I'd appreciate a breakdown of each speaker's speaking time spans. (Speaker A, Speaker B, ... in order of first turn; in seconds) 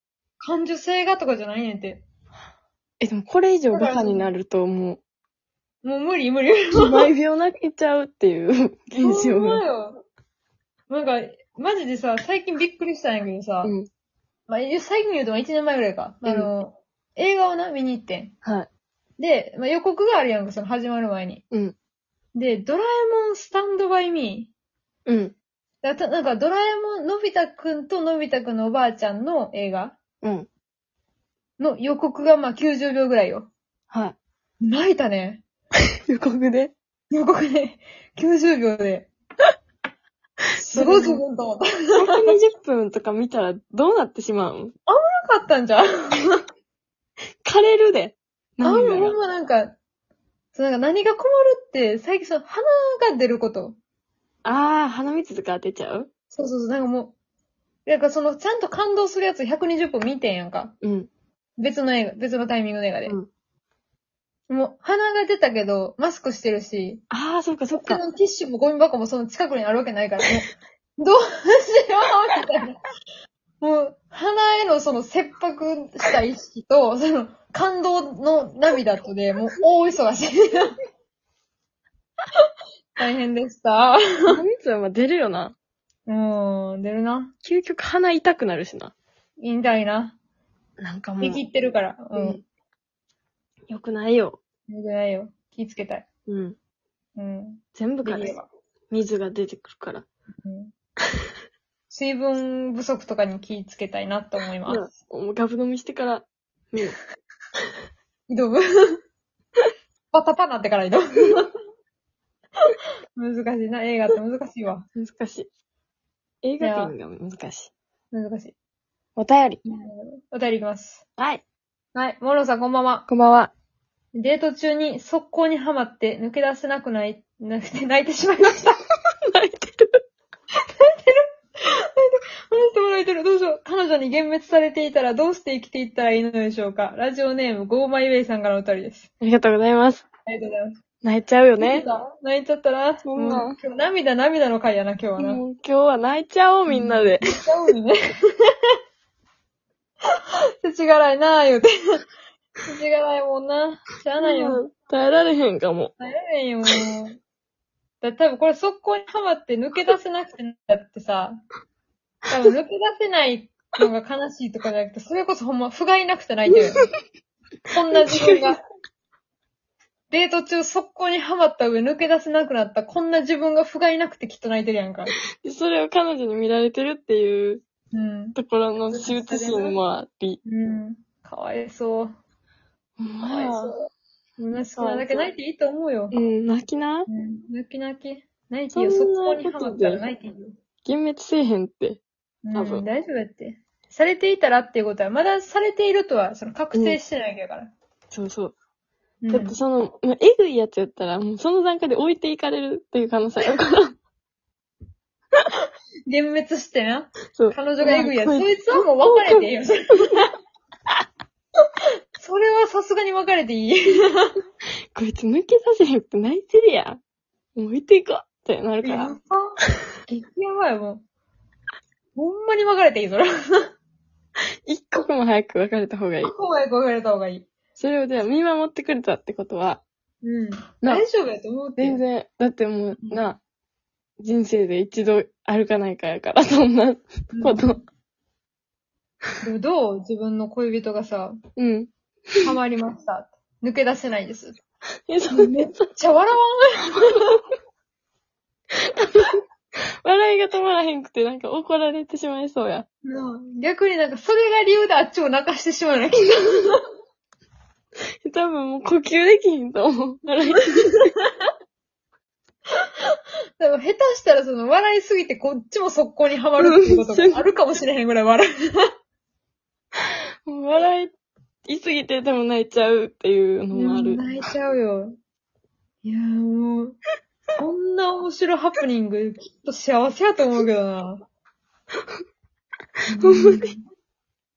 Speaker A: 0.4-2.0, 3.7-4.3, 5.8-7.1, 9.0-10.0, 10.9-13.7, 14.5-18.3, 19.2-21.4, 22.3-24.5, 25.8-29.9, 31.6-33.5, 34.6-35.4, 37.1-39.1, 40.5-42.3, 44.9-46.4, 48.6-49.8, 50.5-53.8, 56.3-57.1, 57.9-60.7, 61.6-63.1, 64.5-67.0, 67.7-72.8, 73.6-80.7, 83.0-84.3, 86.1-87.3, 89.4-90.1, 91.2-92.4, 94.7-96.0, 97.2-98.5, 100.4-100.7, 101.9-104.9, 108.3-109.0, 110.1-111.5, 113.2-114.8, 116.6-116.9, 118.1-118.5, 119.6-121.0, 121.9-123.1, 124.1-128.8, 130.8-131.2, 132.0-139.1, 140.3-140.8, 141.6-145.4, 146.7-148.5, 150.6-151.7, 152.6-154.6, 156.0-157.2, 158.0-161.4, 162.3-166.9, 167.7-168.6, 170.1-175.1, 177.9-179.8, 180.4-182.1, 183.2-183.7, 184.4-186.2, 187.1-190.6, 192.4-197.7, 199.2-199.6, 206.1-210.3, 212.2-214.3, 218.8-219.5, 220.1-221.0, 222.2-223.3, 226.2-227.5, 230.2-232.0, 233.0-233.3, 237.3-237.8, 239.4-241.4, 242.4-244.6, 245.3-247.4, 253.0-256.8, 260.9-261.2, 263.6-268.9, 273.7-275.1, 276.0-276.9, 277.6-281.2, 283.1-283.8
Speaker B: 3.0-5.0, 6.8-9.6, 13.6-13.9, 16.2-16.5, 25.1-25.3, 30.2-30.5, 36.1-36.7, 40.7-41.2, 42.0-44.7, 47.4-49.1, 54.4-56.1, 60.8-61.1, 67.1-68.0, 84.3-85.5, 87.4-88.9, 90.8-91.4, 92.1-92.4, 93.7-94.4, 96.3-96.5, 97.8-98.4, 98.9-100.0, 104.7-107.0, 115.0-115.5, 116.4-117.7, 119.2-119.6, 121.2-121.4, 123.1-123.5, 129.3-130.0, 139.2-140.0, 141.0-141.8, 143.0-143.6, 145.2-147.3, 154.2-155.9, 167.9-168.5, 175.4-177.6, 178.3-180.4, 183.0-183.7, 184.7-185.2, 186.1-187.1, 188.7-190.0, 190.8-192.0, 192.5-192.8, 196.7-197.0, 198.1-198.5, 199.3-203.9, 207.3-209.4, 214.9-217.0, 217.6-219.1, 224.7-226.3, 227.8-229.8, 231.8-233.4, 234.2-237.8, 241.6-242.5, 245.1-245.8, 248.9-249.4, 250.0-252.8, 258.2-261.0, 266.6-267.5, 270.4-271.1, 271.6-274.2, 283.2-283.7